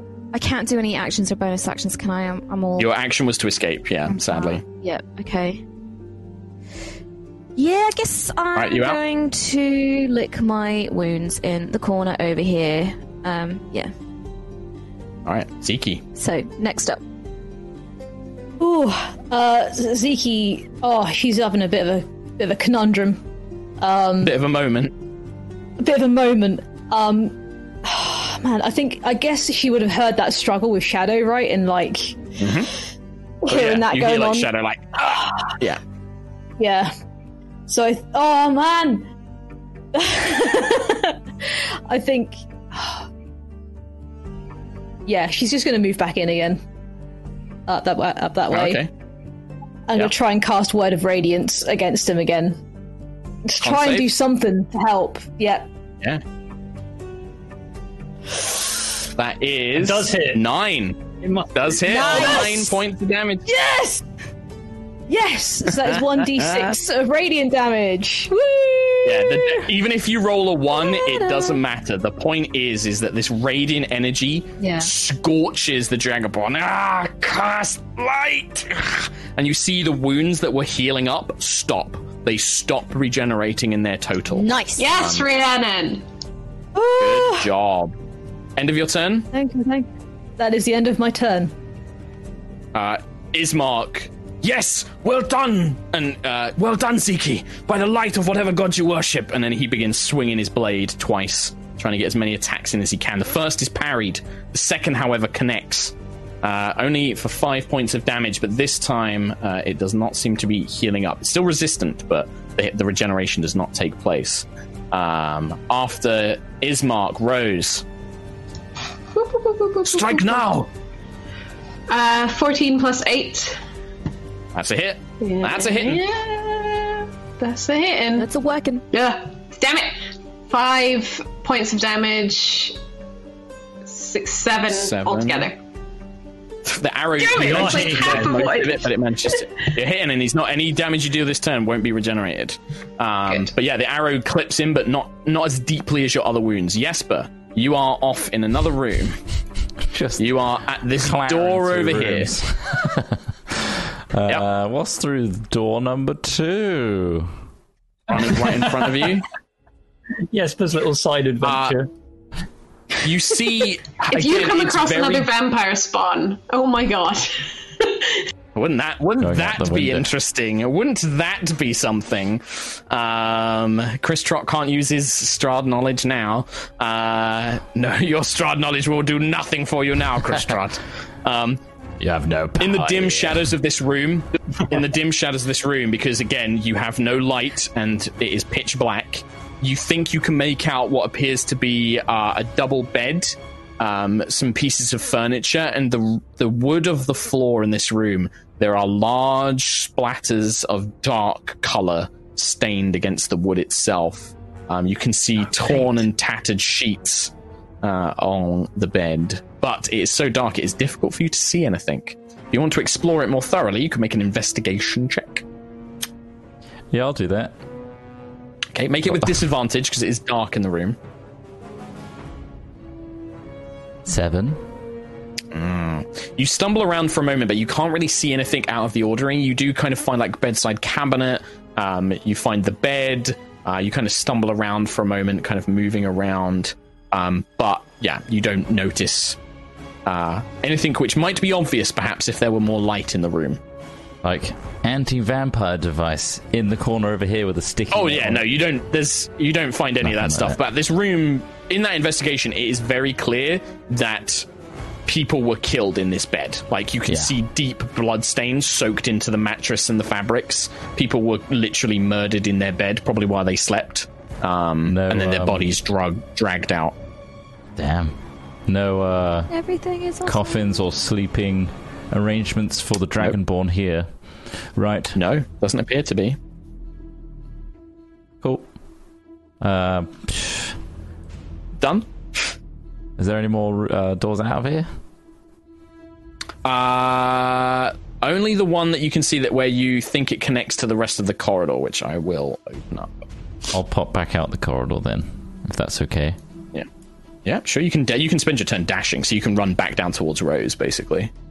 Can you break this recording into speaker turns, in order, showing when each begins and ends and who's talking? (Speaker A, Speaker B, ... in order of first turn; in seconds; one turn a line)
Speaker A: 0.3-2.9
Speaker B: 2.8-4.6
Speaker A: 4.1-5.6
Speaker A: 7.5-13.9
Speaker B: 8.5-9.0
Speaker B: 15.2-16.0
Speaker A: 16.1-17.0
Speaker C: 18.6-23.2
Speaker C: 23.8-24.4
Speaker B: 24.2-24.9
Speaker C: 25.8-32.2
Speaker B: 32.4-32.7
Speaker C: 33.4-34.5
Speaker B: 33.5-35.8
Speaker C: 35.0-35.5
Speaker C: 36.6-36.9
Speaker C: 37.7-39.1
Speaker C: 39.9-43.1
Speaker C: 45.0-46.6
Speaker C: 47.7-48.8
Speaker B: 48.5-48.9
Speaker C: 49.9-52.6
Speaker C: 53.5-55.7
Speaker B: 53.6-54.1
Speaker B: 59.1-61.0
Speaker D: 59.7-60.4
Speaker D: 61.2-62.4
Speaker B: 61.5-63.5
Speaker C: 61.9-62.7
Speaker A: 62.1-62.5
Speaker C: 63.5-64.0
Speaker C: 65.1-69.7
Speaker B: 65.7-66.8
Speaker B: 69.0-85.3
Speaker A: 70.7-71.6
Speaker A: 74.6-74.9
Speaker A: 84.3-84.9
Speaker E: 84.8-86.0
Speaker C: 86.7-87.5
Speaker B: 87.0-87.9
Speaker B: 88.6-89.3
Speaker C: 89.3-89.8
Speaker C: 90.4-91.5
Speaker B: 92.7-117.8
Speaker E: 119.1-120.5
Speaker B: 119.8-120.7
Speaker E: 121.9-123.6
Speaker B: 124.5-126.0
Speaker E: 125.2-128.3
Speaker A: 128.2-128.8
Speaker E: 128.9-130.0
Speaker E: 130.5-132.8
Speaker E: 133.8-135.6
Speaker B: 134.7-135.5
Speaker B: 136.7-149.2
Speaker E: 137.2-138.9
Speaker D: 137.4-138.3
Speaker F: 149.9-150.3
Speaker B: 150.2-152.4
Speaker F: 150.9-157.3
Speaker B: 158.1-159.3
Speaker D: 160.3-161.9
Speaker B: 161.4-161.8
Speaker B: 163.0-165.3
Speaker E: 164.1-168.2
Speaker B: 168.5-181.6
Speaker F: 169.2-170.1
Speaker F: 182.0-183.5
Speaker B: 182.6-215.4
Speaker F: 216.9-217.5
Speaker B: 218.7-220.9
Speaker F: 219.1-219.4
Speaker F: 224.0-224.6
Speaker B: 225.5-239.4
Speaker B: 240.1-243.6
Speaker F: 244.2-248.4
Speaker B: 247.9-254.4
Speaker F: 250.0-250.6
Speaker B: 255.1-266.9
Speaker F: 257.1-257.3
Speaker F: 264.9-265.7
Speaker F: 267.8-269.5
Speaker A: 269.5-270.6
Speaker F: 270.2-275.1
Speaker B: 275.1-276.4
Speaker F: 278.4-278.7
Speaker F: 279.6-280.7
Speaker B: 281.8-282.5
Speaker F: 283.2-284.9
Speaker B: 286.6-293.2
Speaker F: 293.7-296.4
Speaker B: 297.4-301.3